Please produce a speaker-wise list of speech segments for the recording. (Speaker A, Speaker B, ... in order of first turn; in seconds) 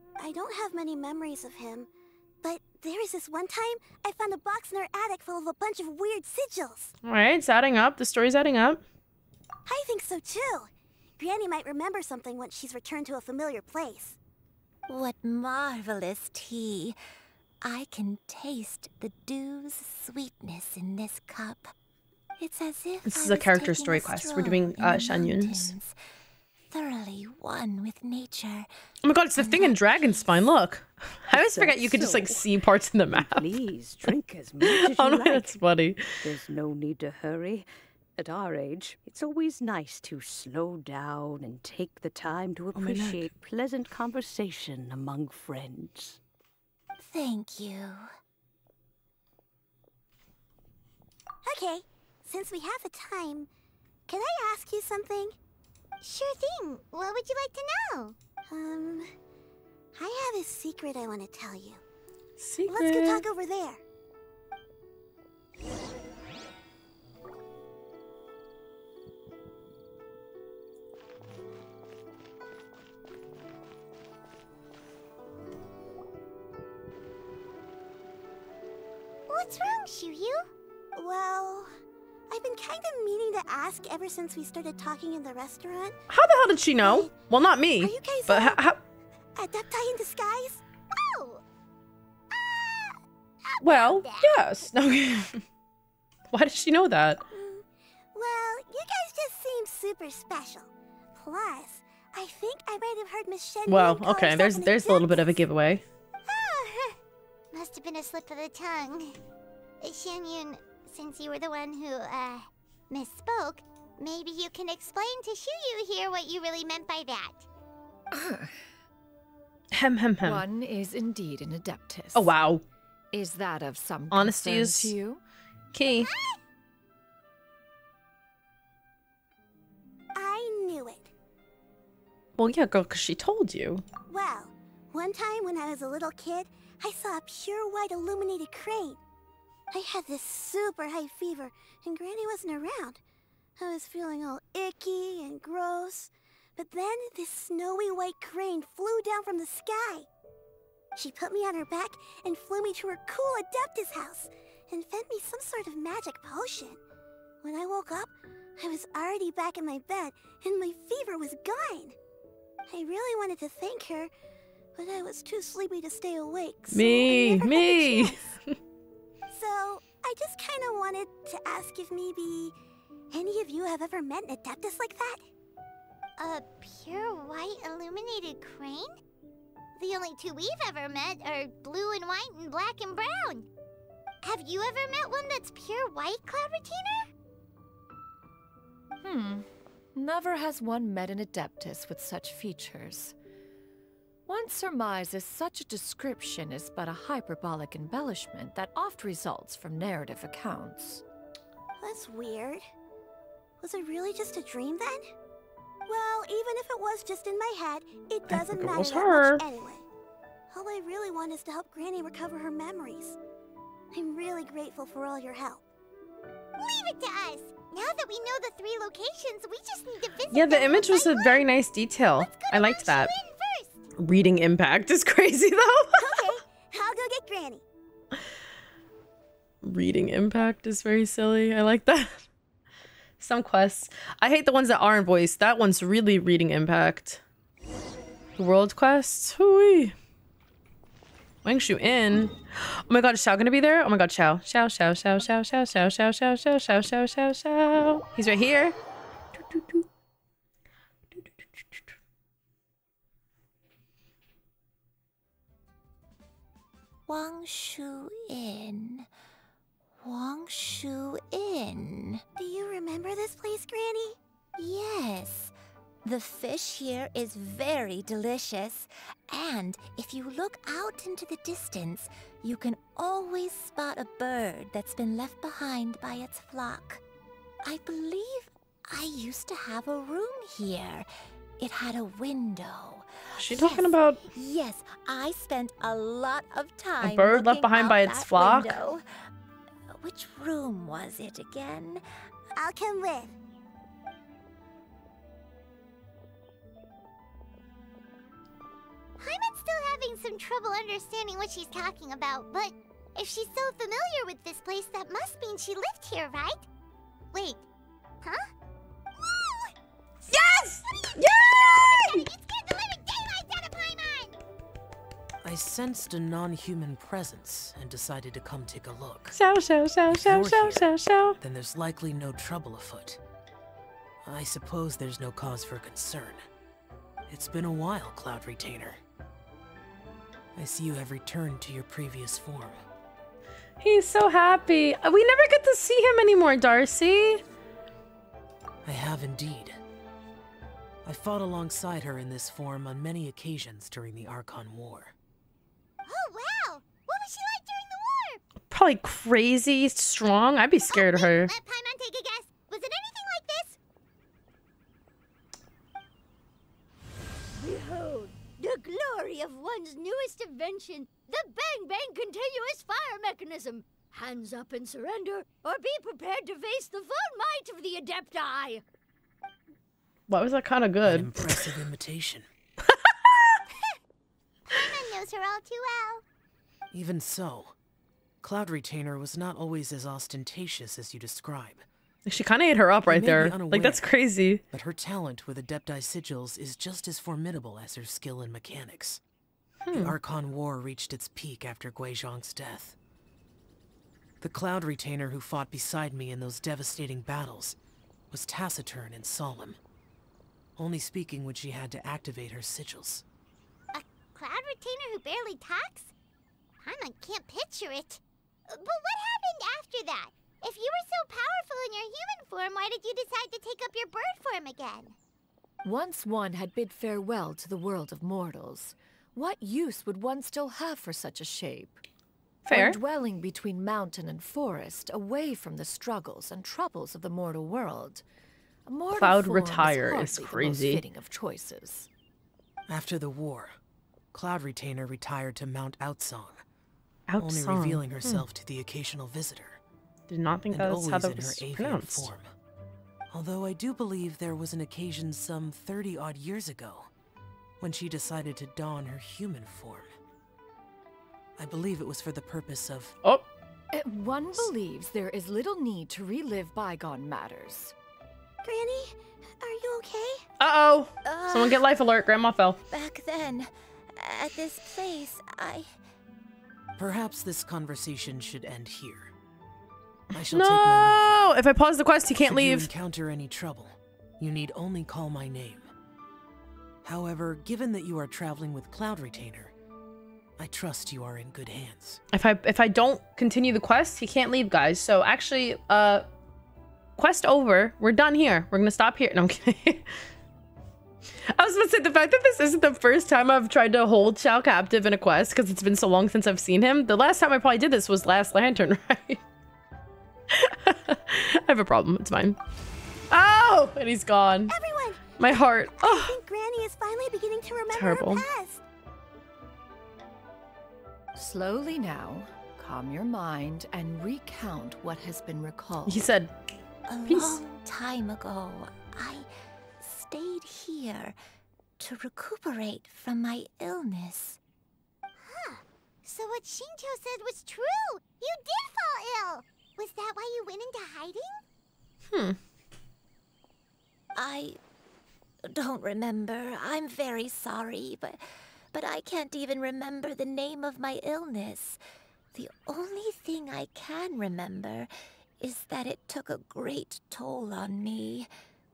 Speaker A: 0.2-1.9, 2.4-7.0, 9.7-14.2, 51.4-53.5, 54.1-55.4, 58.5-59.1, 59.9-61.8, 62.7-63.8, 81.0-81.7, 82.3-86.0, 86.8-87.1, 87.8-88.6, 89.4-90.6, 97.3-105.4, 130.1-131.1, 134.1-139.0, 139.7-143.0, 143.6-150.1, 150.9-156.8, 157.4-162.0, 162.7-164.1, 164.8-168.3, 169.3-172.6, 173.1-175.3, 201.8-202.6, 203.6-205.0, 205.9-209.8, 210.5-213.2, 213.9-215.6, 226.0-227.6, 262.4-264.2, 292.6-293.3, 458.6-460.5, 504.7-508.8
Speaker B: 7.0-8.8, 23.1-25.8, 29.0-33.5, 34.6-36.0, 42.8-43.3, 62.4-63.2, 86.1-88.8, 93.6-95.4, 96.3-97.2, 103.7-105.8, 119.7-120.4, 122.2-122.6, 124.1-124.9, 125.7-126.1, 132.4-133.8, 166.7-168.3, 208.3-209.4, 220.3-223.1, 224.0-226.4, 229.6-232.2, 233.2-237.2, 238.4-239.9, 241.4-248.8, 249.4-249.9, 251.2-251.8, 283.4-284.2, 287.0-288.8, 310.3-312.3, 319.3-321.4, 333.8-337.4, 348.7-351.5, 370.3-371.6, 372.9-373.6, 382.3-384.6, 389.9-390.2, 422.6-423.0, 429.2-431.0, 437.3-438.4, 440.3-442.3, 460.6-462.8, 470.5-472.9, 482.3-486.3, 487.2-490.1, 491.5-499.4, 500.5-502.6, 503.3-504.8, 505.4-506.4, 507.9-508.5, 516.1-516.5, 517.3-517.6, 532.3-532.6
Speaker C: 14.9-17.0, 17.6-21.7, 22.4-25.9, 26.7-28.7, 29.4-30.4, 47.0-48.1, 257.1-259.1, 260.0-262.2, 264.6-277.0, 277.6-281.1, 281.6-289.0, 290.0-292.0, 461.2-461.9, 462.9-465.9, 517.1-519.5, 520.0-521.4, 522.0-524.6, 534.4-534.8, 535.7-538.4, 538.9-542.0, 542.5-548.5
Speaker D: 31.3-32.5, 33.1-35.6, 36.2-46.2
Speaker E: 56.0-58.2, 79.3-80.5, 90.9-91.4, 92.3-94.3, 106.3-107.0, 107.5-109.2, 109.8-117.5, 126.0-126.4, 176.2-178.9, 179.8-183.5, 184.2-187.1, 216.6-221.5, 222.2-223.8, 299.2-306.6, 307.3-307.6, 308.2-308.5, 311.5-314.4, 346.1-348.4, 350.9-353.8, 373.7-374.0, 374.7-376.2, 403.9-406.1, 406.8-415.2, 525.4-531.6
Speaker F: 118.1-118.6, 120.2-122.3, 123.1-125.2, 189.0-193.2, 194.3-201.0, 415.8-422.0, 422.7-428.2, 428.9-432.1, 453.9-457.9, 511.4-516.3
Speaker G: 315.4-319.4, 320.1-323.2, 324.2-326.4, 327.3-329.0, 330.6-332.8, 338.9-339.8, 341.1-345.1, 371.0-372.5, 376.9-377.8, 378.4-381.9, 383.0-384.1, 384.7-389.2, 389.9-393.0, 394.4-397.8, 398.3-399.8, 400.8-403.2, 432.9-433.8, 434.3-436.6, 437.4-439.8, 440.7-442.5, 443.3-447.1, 447.8-450.1, 451.6-453.1, 467.0-469.3, 470.3-471.4, 472.4-475.9, 477.0-479.8, 480.6-482.2
Speaker H: 357.6-368.8